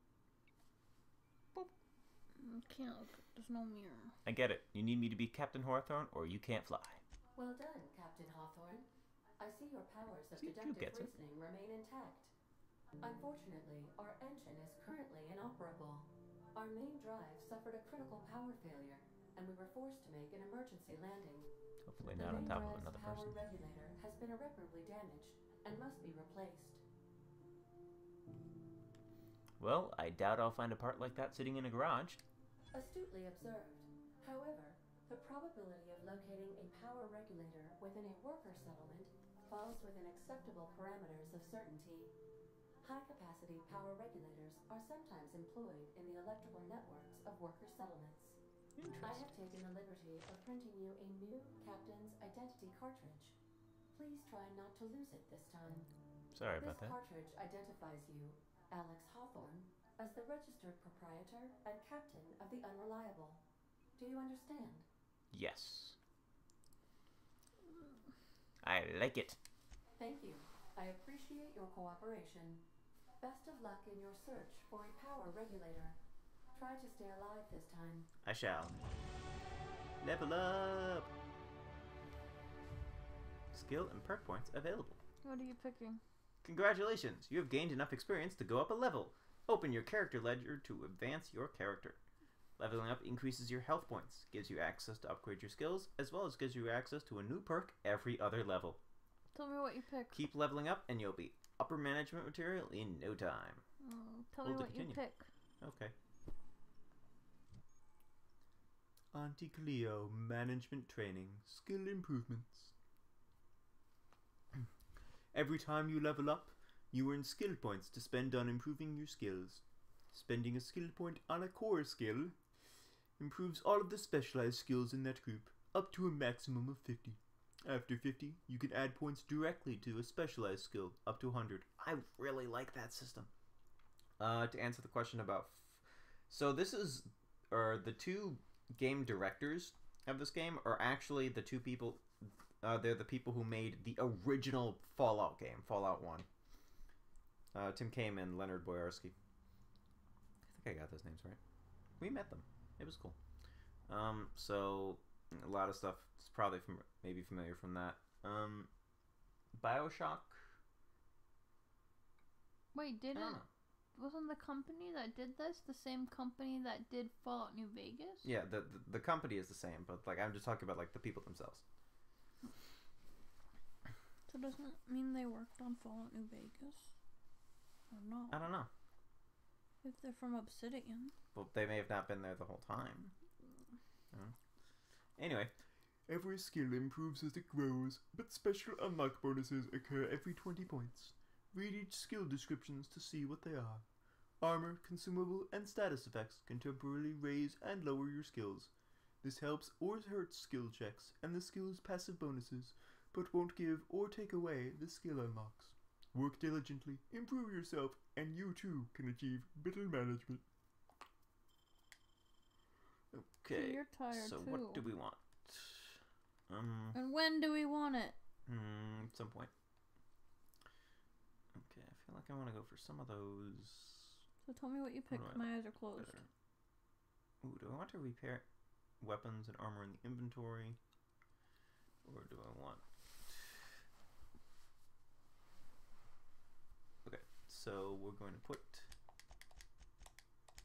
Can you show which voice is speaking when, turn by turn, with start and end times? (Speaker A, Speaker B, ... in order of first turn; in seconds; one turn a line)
Speaker A: 2.4-4.2
Speaker B: 4.2-7.0
Speaker C: 7.3-12.3
Speaker B: 10.4-11.2
Speaker C: 13.0-26.8
Speaker B: 21.8-23.4
Speaker B: 29.6-32.2
Speaker C: 32.7-42.1
Speaker C: 42.8-48.4
Speaker B: 48.8-49.2
Speaker C: 48.9-53.4
Speaker C: 53.9-55.9
Speaker B: 56.3-57.0
Speaker C: 56.6-63.4
Speaker C: 64.0-64.8
Speaker B: 65.3-66.0
Speaker B: 68.6-69.4
Speaker C: 70.0-72.7
Speaker C: 73.2-76.0
Speaker C: 76.5-78.1
Speaker B: 78.2-78.8
Speaker B: 80.0-81.1
Speaker B: 83.5-85.0
Speaker A: 85.2-86.0
Speaker B: 86.4-92.0
Speaker B: 92.6-98.8
Speaker A: 99.3-100.2
Speaker B: 100.1-103.6
Speaker A: 103.8-105.3
Speaker B: 104.4-105.0
Speaker B: 105.6-105.9
Speaker B: 109.1-112.7
Speaker B: 115.3-122.3
Speaker B: 123.2-133.3
Speaker B: 134.2-146.3
Speaker B: 147.5-149.1
Speaker B: 150.5-151.4
Speaker B: 152.0-153.2
Speaker B: 153.9-158.7
Speaker B: 159.5-160.6
Speaker A: 162.7-163.4
Speaker B: 163.1-163.5
Speaker A: 163.9-168.3
Speaker B: 168.2-171.6
Speaker A: 174.3-176.9
Speaker A: 177.9-178.4
Speaker B: 178.3-178.7
Speaker A: 179.8-181.1
Speaker B: 181.3-183.1
Speaker B: 185.2-185.5
Speaker B: 186.1-193.8
Speaker B: 194.4-198.7
Speaker B: 199.2-210.4
Speaker B: 213.1-216.9
Speaker A: 213.5-214.9
Speaker A: 216.9-218.2
Speaker B: 218.4-219.5
Speaker B: 221.5-224.2
Speaker A: 224.4-226.2
Speaker B: 225.1-226.3
Speaker B: 227.4-228.4
Speaker B: 229.0-230.8
Speaker B: 232.0-233.8
Speaker B: 237.0-238.9